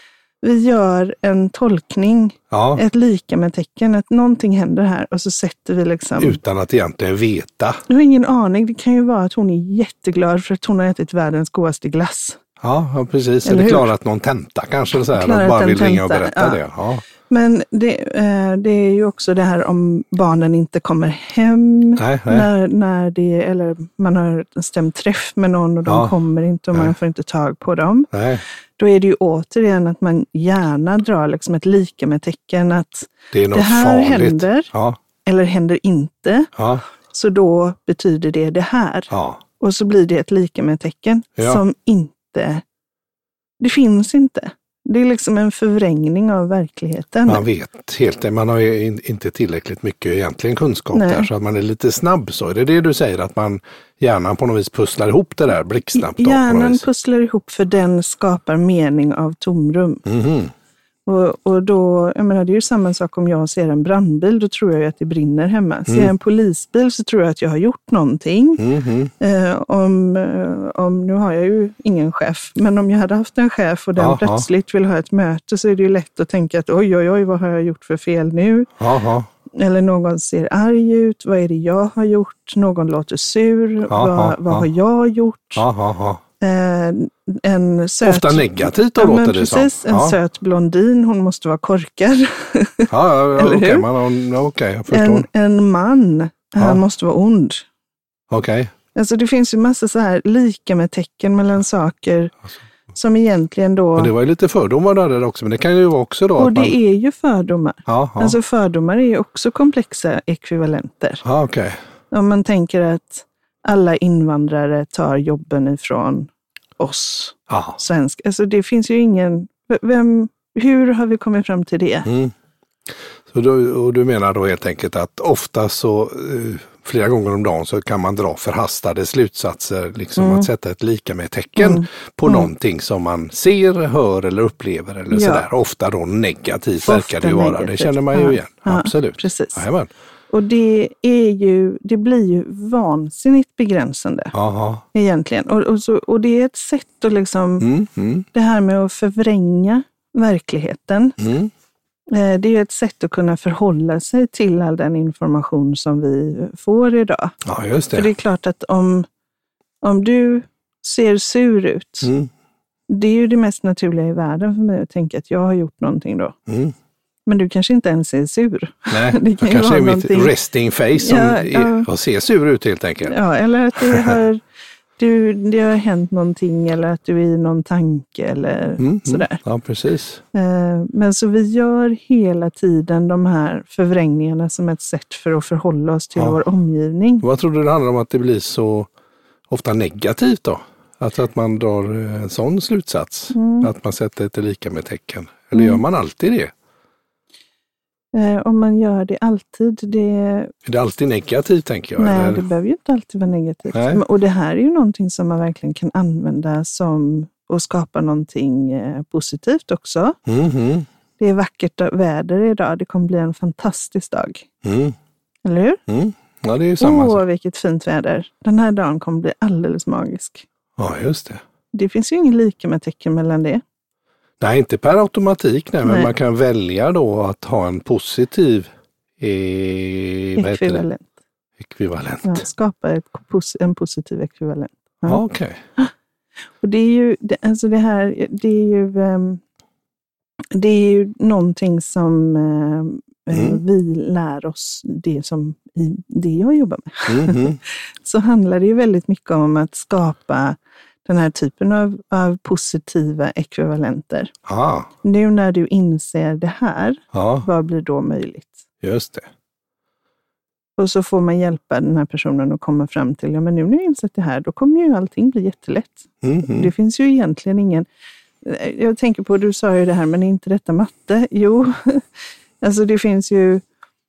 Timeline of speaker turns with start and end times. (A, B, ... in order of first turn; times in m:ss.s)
0:00.4-0:06.4 A
0:02.5-0:02.8 B
0:06.2-0:07.8 B
0:07.9-0:12.4 A
0:12.6-0:17.0 B
0:13.4-0:13.9 A
0:15.1-0:16.6 A
0:17.2-0:28.1 A
0:22.0-0:22.5 B
0:25.8-0:26.1 B
0:28.1-0:28.4 B
0:28.8-0:34.7 A
0:33.3-0:35.0 B
0:35.2-0:36.5 A
0:36.6-0:36.8 B
0:37.1-0:42.6 A
0:39.1-0:39.4 B
0:41.4-0:41.6 B
0:43.6-0:47.4 A
0:47.3-0:56.8 B
0:50.9-0:51.3 A
0:55.9-1:00.0 A
1:00.0-1:00.5 B
1:01.0-1:08.6 A
1:08.6-1:09.1 B
1:09.2-1:18.7 A
1:14.0-1:14.5 B
1:18.8-1:19.3 B
1:19.5-1:25.6 A
1:23.9-1:24.7 B
1:25.5-1:26.2 B
1:26.4-1:33.9 A
1:28.0-1:30.2 B
1:32.9-1:35.3 B
1:34.9-1:37.6 A
1:38.3-1:38.7 B
1:38.9-1:42.3 A
1:42.9-1:44.1 A
1:44.0-1:46.8 B
1:46.4-1:51.2 A
1:47.9-1:48.4 B
1:51.2-1:51.8 B
1:52.1-2:02.1 A
1:57.5-1:57.8 B
2:02.0-2:02.3 B
2:03.3-2:19.9 B
2:10.2-2:10.5 A
2:11.6-2:12.5 A
2:15.1-2:15.4 A
2:16.8-2:19.6 A
2:20.3-2:24.3 A
2:24.3-2:24.8 B
2:24.9-2:27.6 A
2:27.6-2:28.2 B
2:28.3-2:31.2 A
2:31.2-2:31.5 B
2:32.1-2:37.4 A
2:37.4-2:38.1 B
2:37.9-2:39.1 A
2:39.8-2:42.1 A
2:42.0-2:42.3 B
2:42.9-2:46.3 A
2:46.5-2:46.7 B
2:47.2-2:50.3 A
2:48.9-2:53.2 B
2:51.0-2:51.9 A
2:53.0-2:54.4 A
2:55.0-2:59.4 A
2:58.8-3:00.2 B
3:00.3-3:07.2 A
3:07.2-3:08.9 B
3:09.5-3:16.5 B
3:13.3-3:13.7 A
3:15.5-3:15.8 A
3:18.1-3:20.5 A
3:20.6-3:22.4 B
3:22.0-3:30.2 A
3:23.7-3:24.0 B
3:30.2-3:30.9 B
3:31.2-3:34.4 A
3:34.6-3:35.0 B
3:35.4-3:35.8 A
3:35.9-3:37.2 B
3:36.8-3:40.4 A
3:40.8-3:41.4 B
3:41.7-3:43.6 A
3:44.4-3:50.8 B
3:45.8-3:46.1 A
3:50.4-3:51.1 A
3:51.6-3:52.4 B
3:52.2-3:55.2 A
3:55.0-3:55.6 B
3:56.6-3:59.4 A
4:00.5-4:14.3 A
4:03.3-4:03.6 B
4:07.1-4:07.6 B
4:14.4-4:14.9 B
4:15.0-4:18.6 A
4:17.1-4:17.5 B
4:18.8-4:19.3 B
4:20.8-4:27.9 A
4:26.2-4:26.7 B
4:28.4-4:32.0 A
4:32.6-4:33.6 A